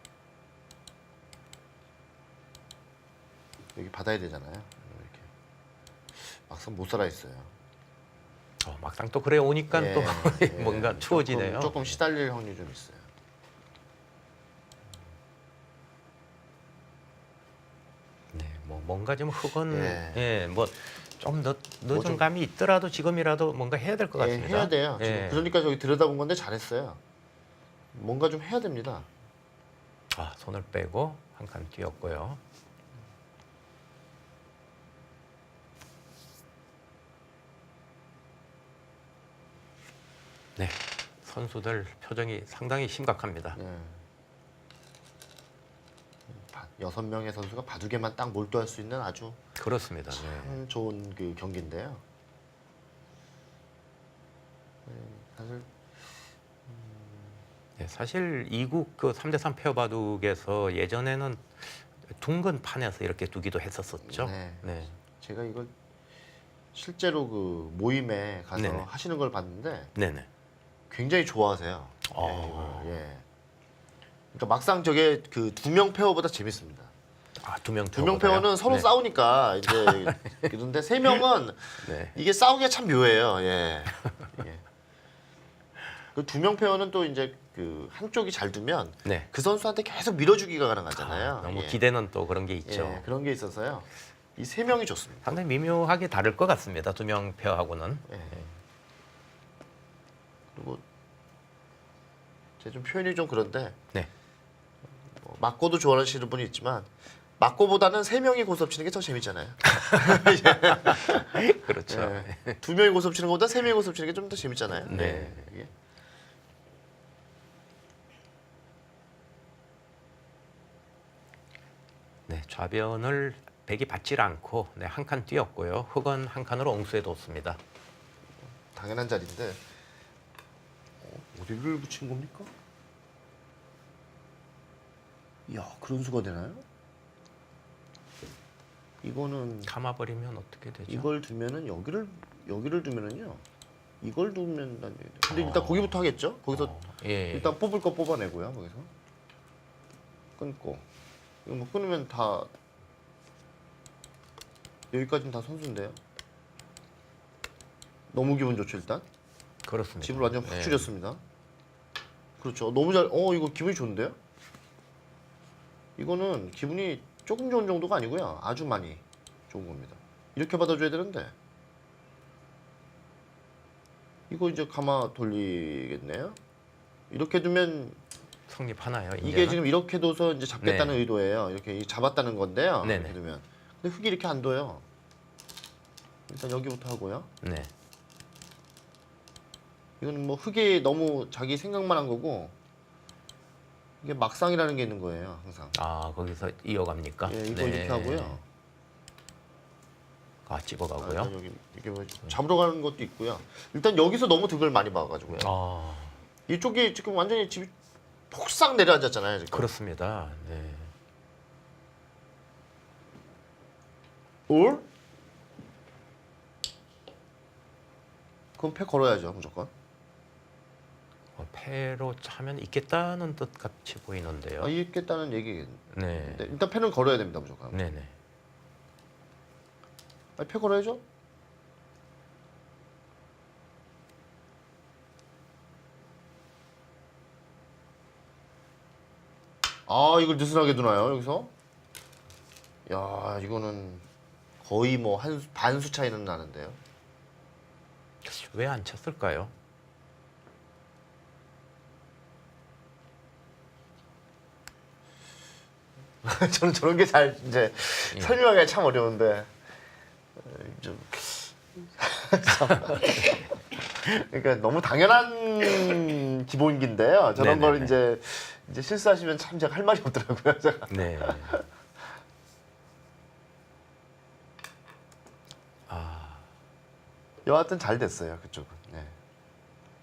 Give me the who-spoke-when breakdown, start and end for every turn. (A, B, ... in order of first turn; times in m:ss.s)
0:03.8-0:05.3 A
0:06.2-0:07.5 A
0:08.6-0:12.0 B
0:09.7-0:13.1 A
0:18.3-0:25.5 B
0:19.7-0:20.2 A
0:21.9-0:22.3 A
0:24.2-0:27.0 A
0:27.9-0:29.1 A
0:30.1-0:32.4 B
0:40.6-0:43.6 B
0:43.6-0:44.0 A
0:46.3-0:49.4 A
0:49.6-0:50.6 B
0:50.1-0:52.0 A
0:54.9-0:56.1 A
0:56.7-0:57.4 A
0:57.8-1:04.9 B
1:04.1-1:05.7 A
1:06.7-1:09.9 A
1:08.6-1:08.9 B
1:10.0-1:10.3 B
1:10.9-1:13.2 A
1:12.1-1:12.9 B
1:14.3-1:16.9 A
1:17.4-1:18.9 B
1:17.9-1:24.6 A
1:19.6-1:20.5 B
1:21.8-1:22.2 B
1:24.0-1:24.3 B
1:26.2-1:31.8 A
1:30.9-1:33.1 B
1:32.7-1:35.4 A
1:35.2-1:38.5 B
1:38.1-1:38.4 A
1:40.5-1:40.8 A
1:42.6-1:43.8 A
1:45.1-1:55.7 A
1:49.6-1:52.6 B
1:54.8-1:55.4 B
2:02.3-2:07.6 B
2:08.7-2:09.6 A
2:11.0-2:12.5 A
2:15.5-2:16.6 A
2:19.0-2:19.7 A
2:19.7-2:21.1 B
2:20.9-2:23.4 A
2:24.0-2:26.8 A
2:25.3-2:27.5 B
2:27.3-2:28.9 A
2:30.4-2:30.9 A
2:31.4-2:32.5 A
2:34.9-2:36.0 A
2:38.1-2:39.0 A
2:39.6-2:40.9 B
2:40.0-2:41.2 A
2:42.4-2:44.2 A
2:46.0-2:51.3 A
2:54.3-2:56.4 A
2:57.1-2:58.0 A
2:58.5-2:59.6 B
2:59.2-3:04.8 A
3:00.6-3:01.0 B
3:02.8-3:03.2 B
3:06.3-3:07.3 A
3:07.4-3:07.7 B
3:10.0-3:12.5 A
3:14.0-3:15.7 A
3:15.7-3:18.4 B
3:17.2-3:18.4 A
3:20.5-3:21.3 B
3:21.0-3:25.5 A
3:25.3-3:26.2 B
3:26.5-3:27.7 A
3:28.3-3:29.7 A
3:29.5-3:30.9 B
3:34.5-3:34.8 A
3:38.6-3:39.7 A
3:41.4-3:44.7 B
3:44.6-3:47.9 A
3:45.9-3:46.5 B
3:47.7-3:48.1 B
3:50.4-3:51.0 A
3:59.9-4:01.5 A
4:02.9-4:04.0 A
4:04.6-4:06.8 A
4:08.2-4:09.5 B
4:16.2-4:19.5 A
4:18.1-4:18.4 B
4:20.4-4:31.7 A
4:22.9-4:23.4 B
4:27.4-4:27.9 B
4:30.9-4:31.6 B
4:35.9-4:36.4 B
4:37.4-4:39.2 A